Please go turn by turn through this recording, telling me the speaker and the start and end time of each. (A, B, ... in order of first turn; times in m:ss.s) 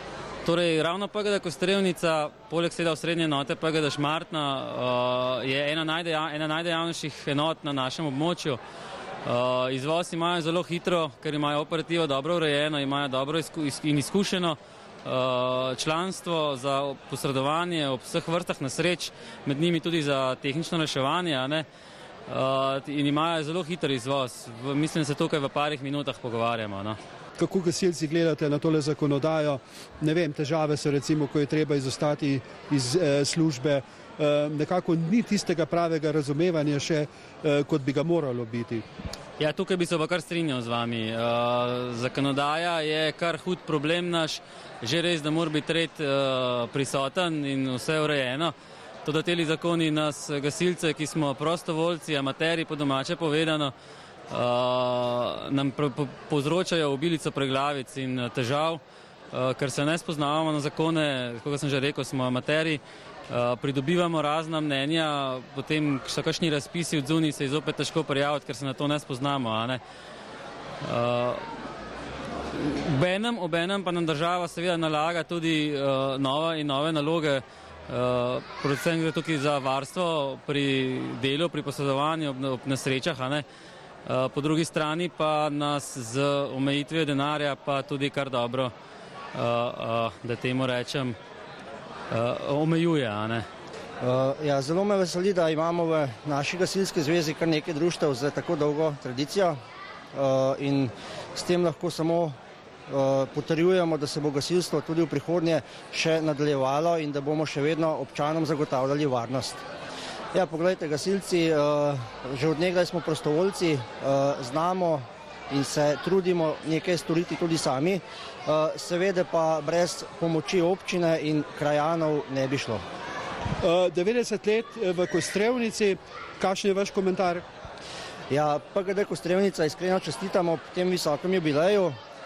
0:00.4-0:08.6 A
0:09.2-0:21.6 A
0:22.3-0:27.0 A
0:27.4-0:38.8 B
0:39.4-0:48.5 A
0:49.0-0:53.7 A
0:54.3-0:58.8 A
0:59.3-1:09.8 A
1:10.8-1:11.4 A
1:12.5-1:23.4 A
1:24.0-1:28.7 A
1:29.3-1:31.2 A
1:32.1-1:33.4 A
1:34.0-1:39.5 C
1:40.1-1:42.3 C
1:42.9-1:49.6 C
1:50.3-1:55.0 C
1:55.6-2:02.8 C
2:03.6-2:07.4 B
2:08.3-2:11.9 C